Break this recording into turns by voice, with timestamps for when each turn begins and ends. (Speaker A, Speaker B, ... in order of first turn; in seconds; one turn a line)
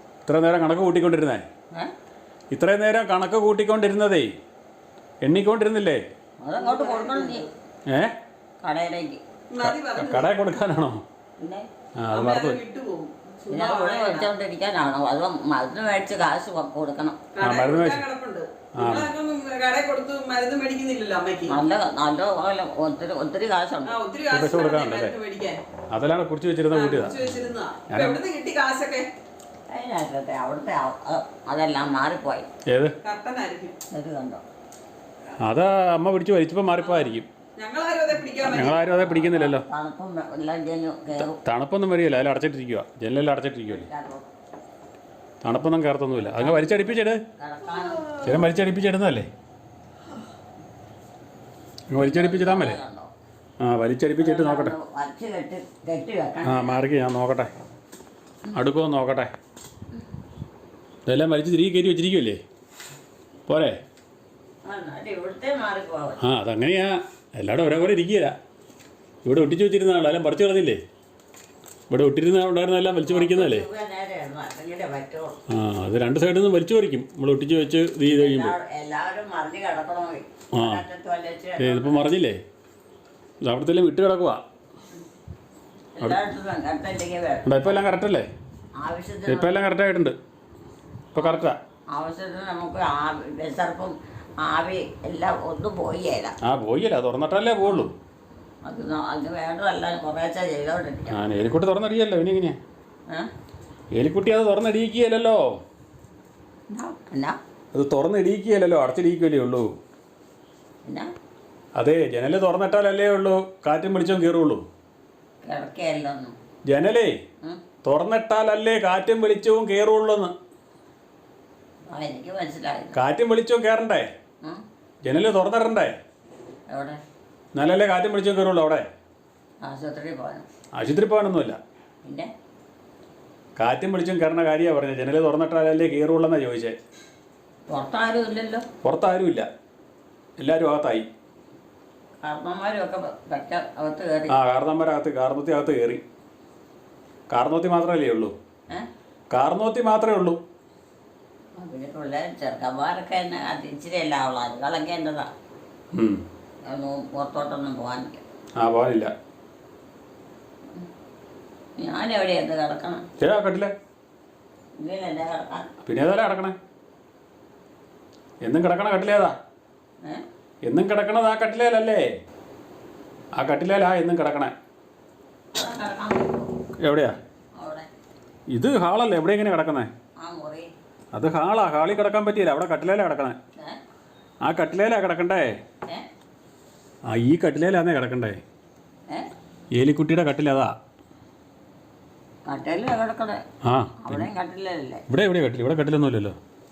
Speaker A: 0.2-1.5
Speaker A: 2.5-4.3
Speaker A: 5.2-6.0
Speaker B: 6.4-7.5
Speaker C: 6.6-7.5
Speaker A: 7.9-8.1
Speaker B: 8.6-9.2
Speaker C: 9.5-10.3
Speaker A: 9.6-11.0
Speaker B: 11.4-11.7
Speaker A: 12.0-12.6
Speaker C: 12.1-14.3
Speaker B: 13.5-17.3
Speaker C: 17.3-21.6
Speaker A: 17.4-18.0
Speaker A: 18.8-19.1
Speaker B: 21.5-23.9
Speaker C: 23.9-25.6
Speaker A: 24.3-25.1
Speaker A: 25.9-27.2
Speaker C: 26.7-29.1
Speaker A: 27.9-28.2
Speaker B: 29.7-32.5
Speaker A: 32.7-32.9
Speaker C: 33.0-33.8
Speaker B: 33.9-34.4
Speaker A: 35.4-37.3
Speaker C: 36.9-38.8
Speaker A: 38.4-39.6
Speaker B: 39.0-41.4
Speaker A: 41.4-43.9
Speaker B: 43.7-44.3
Speaker A: 45.4-47.2
Speaker B: 46.2-48.2
Speaker C: 47.8-48.3
Speaker A: 48.2-49.3
Speaker A: 51.9-52.8
Speaker B: 51.9-53.1
Speaker A: 53.6-54.7
Speaker B: 54.2-56.8
Speaker A: 56.4-57.5
Speaker A: 58.5-59.3
Speaker A: 61.0-62.4
Speaker A: 63.5-63.8
Speaker B: 64.6-66.2
Speaker A: 66.2-68.4
Speaker A: 69.2-70.8
Speaker A: 71.9-73.7
Speaker B: 73.0-75.4
Speaker A: 75.5-78.5
Speaker B: 78.1-82.0
Speaker A: 80.5-80.8
Speaker A: 81.6-82.4
Speaker A: 83.4-84.4
Speaker B: 85.9-87.7
Speaker A: 87.4-88.3
Speaker B: 88.8-89.5
Speaker A: 89.3-90.2
Speaker A: 91.1-91.6
Speaker B: 91.2-96.3
Speaker A: 96.4-97.9
Speaker B: 98.6-101.2
Speaker A: 101.1-102.6
Speaker A: 103.9-105.6
Speaker B: 106.7-107.4
Speaker A: 107.7-109.7
Speaker B: 110.8-111.1
Speaker A: 111.8-114.6
Speaker B: 115.4-116.3
Speaker A: 116.7-117.2
Speaker A: 117.8-120.3
Speaker B: 121.9-123.0
Speaker A: 122.9-124.1
Speaker A: 125.0-126.0
Speaker B: 126.7-127.0
Speaker A: 127.5-128.9
Speaker B: 129.6-130.4
Speaker A: 130.7-131.6
Speaker B: 132.0-132.3
Speaker A: 133.6-136.8
Speaker B: 137.7-138.7
Speaker A: 138.8-139.5
Speaker A: 140.4-141.1
Speaker B: 142.2-144.4
Speaker A: 144.3-146.0
Speaker A: 147.3-148.3
Speaker A: 149.3-150.4
Speaker B: 151.6-155.3
Speaker A: 155.9-156.2
Speaker B: 156.6-158.2
Speaker A: 158.6-159.1
Speaker B: 161.8-163.1
Speaker A: 163.2-163.7
Speaker B: 164.8-165.7
Speaker A: 165.8-166.6
Speaker A: 168.4-169.3
Speaker A: 170.6-172.1
Speaker A: 173.3-174.5
Speaker B: 175.5-176.5
Speaker A: 176.8-177.2
Speaker B: 177.6-177.9
Speaker A: 178.5-179.9
Speaker B: 180.2-180.7
Speaker A: 181.1-183.4
Speaker A: 184.4-185.6
Speaker A: 187.1-188.4
Speaker A: 189.7-190.7
Speaker B: 192.4-193.4
Speaker A: 193.6-194.3
Speaker B: 194.0-195.0
Speaker A: 195.1-196.4